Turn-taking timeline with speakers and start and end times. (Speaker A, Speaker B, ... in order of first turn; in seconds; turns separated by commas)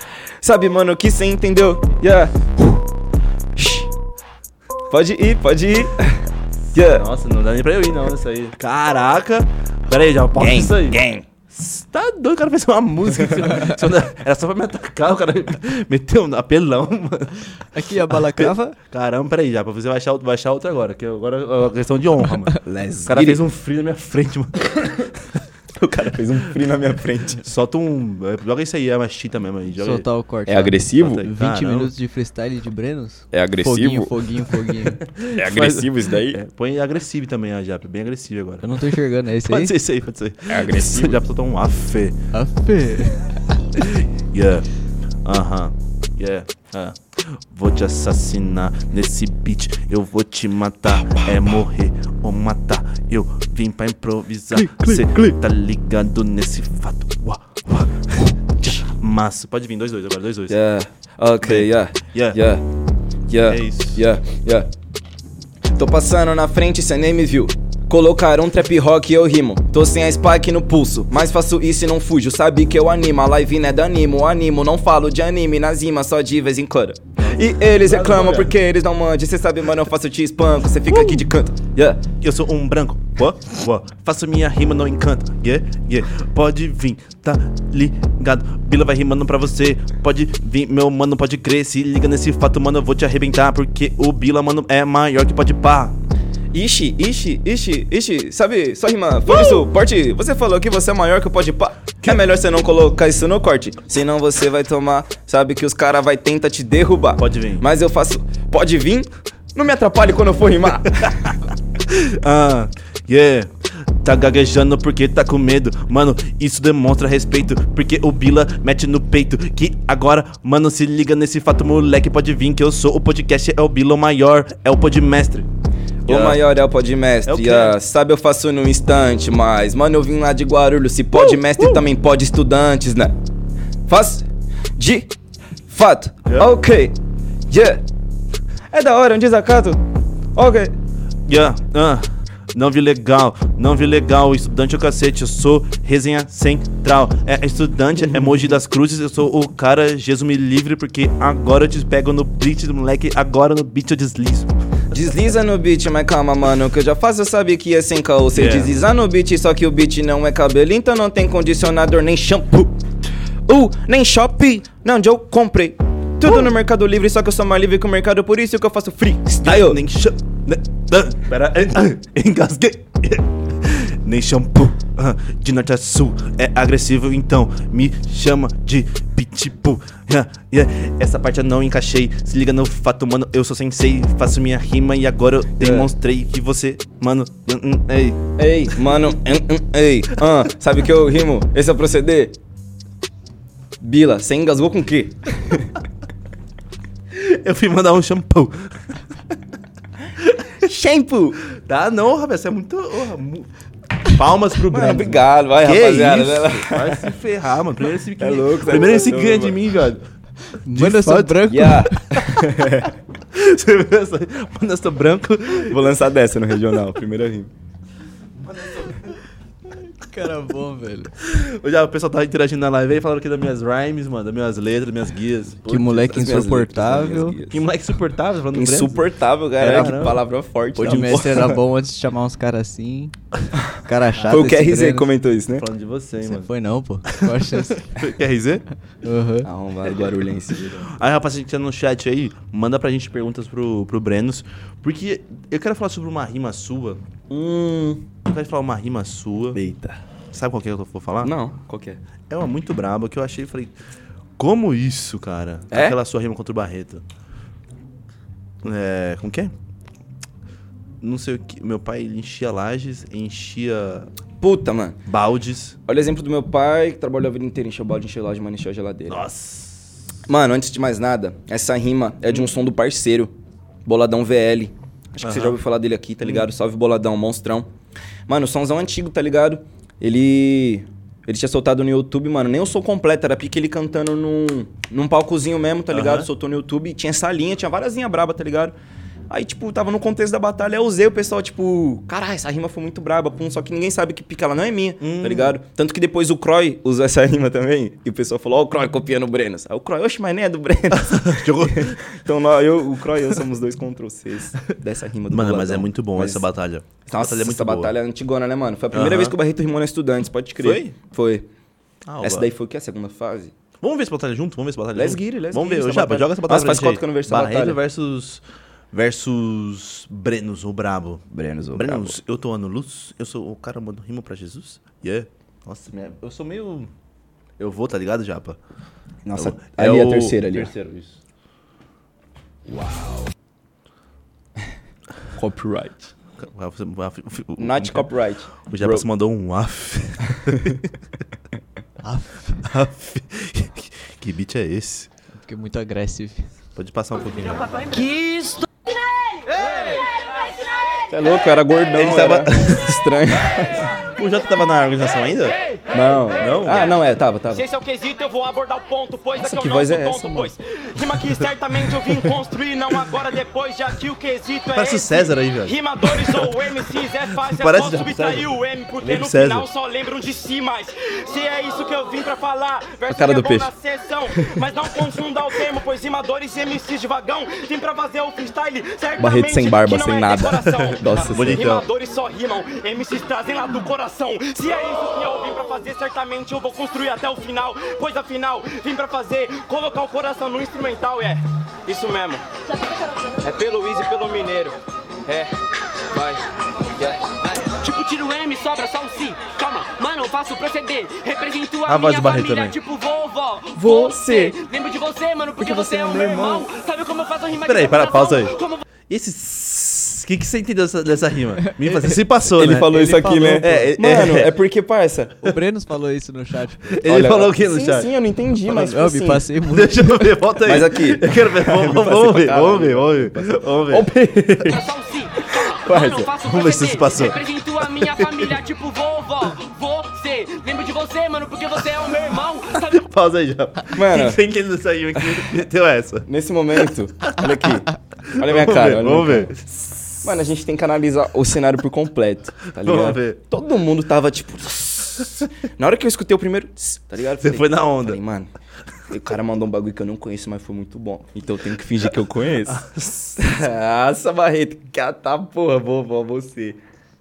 Speaker A: 0.4-2.4, Speaker A: 3.6-3.9, Speaker A: 4.9-6.2, Speaker A: 6.7-7.0, Speaker B: 6.7-17.5, Speaker A: 10.4-11.2, Speaker C: 17.7-18.8, Speaker B: 18.1-25.2, Speaker A: 22.6-23.4, Speaker A: 25.8-27.4, Speaker B: 27.4-30.1, Speaker C: 29.8-35.0, Speaker A: 30.5-31.3, Speaker B: 31.0-31.9, Speaker A: 33.3-34.1, Speaker B: 35.0-42.2, Speaker A: 35.4-36.4, Speaker C: 38.6-39.8, Speaker A: 40.5-41.2, Speaker C: 42.3-43.4, Speaker B: 43.8-44.7, Speaker B: 45.2-60.6, Speaker A: 60.5-62.6, Speaker B: 61.4-62.4, Speaker A: 63.3-64.7, Speaker B: 63.5-64.0, Speaker A: 65.7-82.0, Speaker B: 77.2-78.6, Speaker B: 80.9-81.3, Speaker B: 82.2-96.0, Speaker A: 96.5-111.3, Speaker B: 99.3-99.6, Speaker B: 107.2-107.7, Speaker B: 110.9-125.5, Speaker B: 126.1-126.5, Speaker A: 126.1-133.2, Speaker B: 127.3-127.8, Speaker B: 131.2-131.8, Speaker A: 133.9-135.1, Speaker A: 135.7-137.0, Speaker B: 136.3-136.5, Speaker A: 137.5-137.8, Speaker A: 138.7-139.8, Speaker A: 140.3-140.7, Speaker B: 141.3-154.6, Speaker A: 154.9-162.8, Speaker B: 158.3-158.7, Speaker A: 163.5-169.8, Speaker B: 169.4-188.2, Speaker A: 185.6-185.9, Speaker A: 188.4-192.3, Speaker A: 193.8-195.8, Speaker B: 197.1-199.0, Speaker A: 200.6-201.4, Speaker B: 201.5-203.5, Speaker B: 204.0-210.1, Speaker A: 204.7-207.1, Speaker A: 208.2-209.6, Speaker C: 210.6-212.0, Speaker B: 210.7-211.7, Speaker A: 211.4-212.9, Speaker B: 213.3-215.9, Speaker A: 215.6-217.5, Speaker B: 218.4-219.2, Speaker C: 220.0-221.1, Speaker B: 221.2-226.5, Speaker C: 225.7-227.4, Speaker A: 226.1-227.6, Speaker B: 227.5-229.1, Speaker A: 228.5-231.6, Speaker B: 229.6-230.2, Speaker C: 230.8-233.2, Speaker B: 230.9-231.2, Speaker C: 233.7-235.1, Speaker B: 234.1-234.6, Speaker A: 234.3-235.7, Speaker B: 235.6-236.5, Speaker C: 236.3-237.9, Speaker B: 237.1-238.7, Speaker C: 239.0-239.5, Speaker A: 239.4-240.8, Speaker B: 240.7-247.0, Speaker A: 247.3-248.1, Speaker B: 248.2-249.6, Speaker A: 249.5-250.0, Speaker B: 250.3-251.3, Speaker A: 251.2-252.0, Speaker B: 252.3-253.8, Speaker B: 254.4-257.1, Speaker A: 255.7-256.0, Speaker B: 258.6-259.5, Speaker B: 261.0-264.1, Speaker A: 264.4-265.0, Speaker B: 265.1-265.8, Speaker A: 265.9-269.2, Speaker B: 269.1-270.0, Speaker A: 270.3-273.3, Speaker A: 273.9-277.7, Speaker B: 275.2-275.6, Speaker A: 278.3-288.8, Speaker B: 285.9-286.3, Speaker A: 289.3-306.5, Speaker B: 295.0-295.6, Speaker B: 300.9-302.0, Speaker B: 305.3-307.9, Speaker A: 307.1-311.5, Speaker B: 308.9-309.4, Speaker B: 310.6-310.9, Speaker B: 312.1-312.5, Speaker A: 312.2-313.5, Speaker B: 313.8-321.2, Speaker A: 314.9-317.8, Speaker A: 321.3-322.2, Speaker B: 321.8-326.9, Speaker B: 327.6-328.6, Speaker A: 329.2-330.7, Speaker B: 329.4-331.2, Speaker A: 332.7-333.2, Speaker A: 335.4-336.1, Speaker B: 336.4-340.9, Speaker A: 337.6-339.1, Speaker C: 342.0-342.6, Speaker B: 342.6-345.1, Speaker C: 345.4-346.5, Speaker B: 346.8-347.7, Speaker A: 351.1-353.9, Speaker B: 351.9-353.0, Speaker B: 354.2-355.6, Speaker A: 355.9-357.6, Speaker B: 356.4-356.9, Speaker D: 357.5-392.4, Speaker A: 359.4-360.5, Speaker B: 364.7-366.5, Speaker B: 367.4-369.7, Speaker A: 373.1-373.7, Speaker A: 379.2-381.7, Speaker B: 381.3-381.9, Speaker D: 393.4-395.5, Speaker D: 396.1-396.4, Speaker D: 397.0-397.4, Speaker E: 397.8-408.8, Speaker B: 401.9-402.8, Speaker A: 403.8-404.6, Speaker A: 405.6-406.6, Speaker B: 407.6-408.6, Speaker B: 409.1-414.6, Speaker C: 411.8-412.2, Speaker A: 412.6-415.4, Speaker C: 412.8-413.9, Speaker C: 415.4-417.0, Speaker B: 416.9-418.1, Speaker A: 417.1-419.5, Speaker C: 418.7-420.4, Speaker B: 419.7-424.6, Speaker A: 420.7-424.8, Speaker E: 424.7-433.0, Speaker A: 425.8-426.3, Speaker B: 426.4-428.6, Speaker B: 432.8-436.3, Speaker A: 433.9-434.4, Speaker A: 436.3-439.5, Speaker B: 437.3-437.5, Speaker B: 438.3-440.1, Speaker A: 440.2-448.5, Speaker B: 442.8-443.4, Speaker B: 447.4-448.2, Speaker A: 449.1-452.9, Speaker B: 452.6-453.5, Speaker A: 453.4-456.8